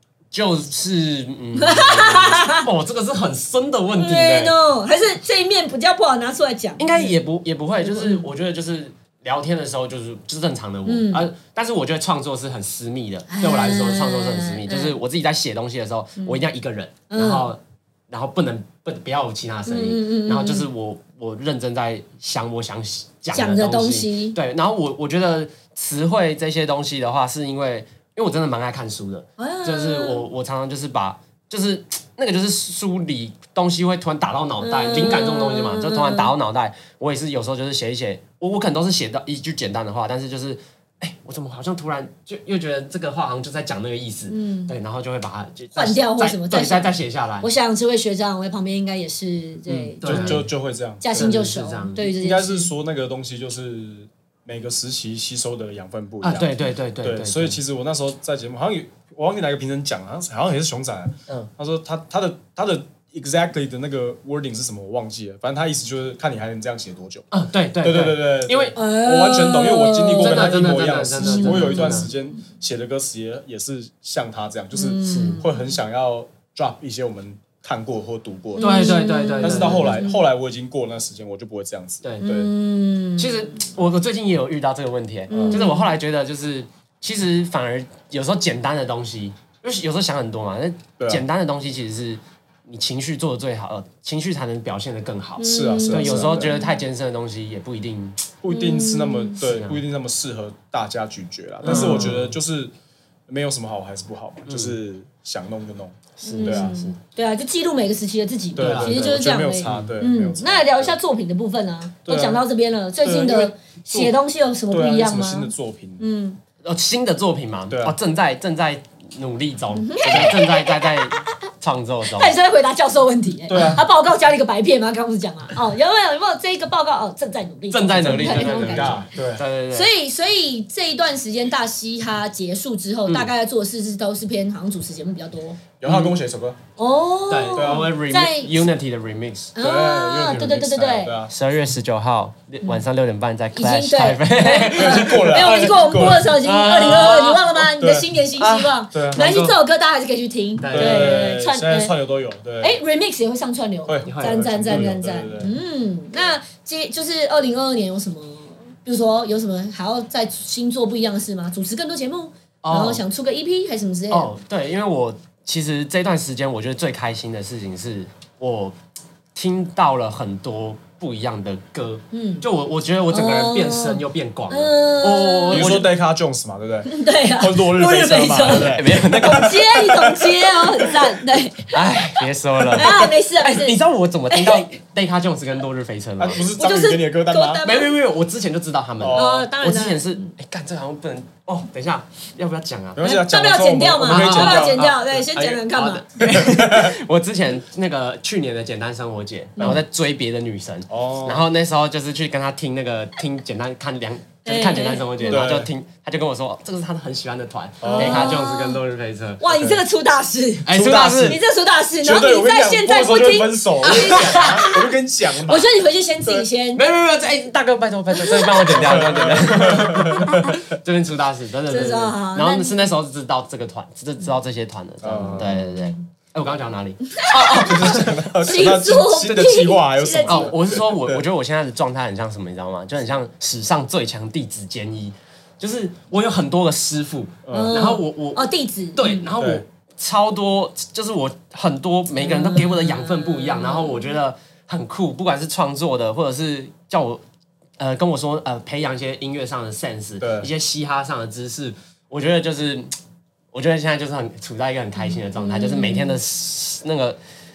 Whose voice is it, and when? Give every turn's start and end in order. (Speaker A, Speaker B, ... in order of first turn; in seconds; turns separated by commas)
Speaker A: 0.3-4.6, Speaker B: 1.6-2.7, Speaker B: 4.0-7.1, Speaker A: 6.8-47.5, Speaker B: 7.8-8.3, Speaker B: 10.8-11.3, Speaker B: 13.3-15.0, Speaker B: 17.1-17.5, Speaker B: 19.7-20.7, Speaker B: 23.3-24.4, Speaker B: 29.4-30.2, Speaker B: 34.6-36.3, Speaker B: 44.3-44.8, Speaker B: 45.8-50.5, Speaker A: 49.7-50.5, Speaker C: 50.0-51.3, Speaker B: 51.0-52.7, Speaker A: 51.1-52.1, Speaker C: 52.0-67.3, Speaker A: 56.2-57.6, Speaker A: 67.3-68.8, Speaker C: 67.8-82.5, Speaker B: 68.8-70.5, Speaker A: 70.2-72.1, Speaker B: 71.2-72.1, Speaker B: 74.7-75.6, Speaker A: 75.0-75.4, Speaker B: 78.6-80.2, Speaker A: 78.6-80.0, Speaker A: 82.0-82.5, Speaker B: 82.2-83.7, Speaker A: 83.2-98.3, Speaker C: 85.3-85.7, Speaker B: 85.4-85.9, Speaker B: 95.4-96.8, Speaker C: 95.4-96.6, Speaker C: 98.4-102.7, Speaker B: 98.5-99.4, Speaker A: 99.4-99.8, Speaker A: 101.6-102.4, Speaker B: 101.7-102.1, Speaker C: 103.3-106.8, Speaker A: 104.5-104.8, Speaker A: 106.2-107.0, Speaker B: 106.2-116.4, Speaker C: 108.6-111.0, Speaker A: 108.6-109.0, Speaker A: 109.7-110.0, Speaker C: 112.1-112.5, Speaker C: 113.0-114.2, Speaker C: 114.7-116.1, Speaker A: 116.6-122.3, Speaker C: 117.7-118.0, Speaker B: 119.7-120.6, Speaker C: 120.0-120.4, Speaker B: 122.1-129.1, Speaker C: 123.5-123.8, Speaker A: 127.7-129.9, Speaker C: 128.0-129.4, Speaker B: 129.7-135.6, Speaker C: 135.8-136.6, Speaker A: 135.8-136.2, Speaker B: 136.8-138.7, Speaker A: 137.3-139.5, Speaker C: 137.6-137.9, Speaker B: 139.6-141.1, Speaker C: 139.6-141.3, Speaker A: 141.3-147.7, Speaker B: 143.6-151.9, Speaker C: 144.7-146.3, Speaker C: 147.8-148.1, Speaker A: 148.4-149.6, Speaker C: 148.9-149.3, Speaker A: 150.6-151.2, Speaker C: 150.7-152.8, Speaker B: 152.6-164.3, Speaker C: 153.9-155.6, Speaker A: 154.1-155.0, Speaker A: 162.6-163.0, Speaker A: 164.1-168.8, Speaker A: 169.3-175.9, Speaker B: 172.1-172.4, Speaker B: 173.1-175.9, Speaker C: 175.5-179.5, Speaker B: 176.8-181.8, Speaker A: 178.4-180.7, Speaker A: 181.7-186.4, Speaker B: 182.7-183.8, Speaker B: 184.3-184.7, Speaker C: 186.2-187.6, Speaker B: 186.5-187.9, Speaker A: 187.6-193.0, Speaker C: 189.0-189.5, Speaker B: 189.1-190.3, Speaker C: 193.0-194.9, Speaker B: 193.0-196.1, Speaker A: 194.1-209.7, Speaker C: 196.2-197.0, Speaker B: 199.6-199.8, Speaker C: 200.9-201.5, Speaker B: 204.4-205.5, Speaker C: 205.3-205.7, Speaker C: 207.8-208.4, Speaker B: 207.8-208.8, Speaker B: 209.4-214.9, Speaker A: 210.7-211.4, Speaker C: 210.7-211.4, Speaker C: 212.0-215.7, Speaker A: 214.0-214.4, Speaker B: 215.5-216.8, Speaker A: 216.8-228.3, Speaker B: 218.1-218.8, Speaker C: 218.7-220.6, Speaker B: 221.7-222.8, Speaker C: 225.0-225.6, Speaker B: 225.4-225.9, Speaker B: 227.2-230.6, Speaker C: 227.6-231.2, Speaker A: 230.3-247.2, Speaker C: 237.4-237.8, Speaker B: 237.5-239.2, Speaker C: 239.4-239.6, Speaker B: 242.2-244.1, Speaker A: 247.8-252.9, Speaker C: 250.2-250.5, Speaker A: 253.5-257.2, Speaker B: 255.3-256.2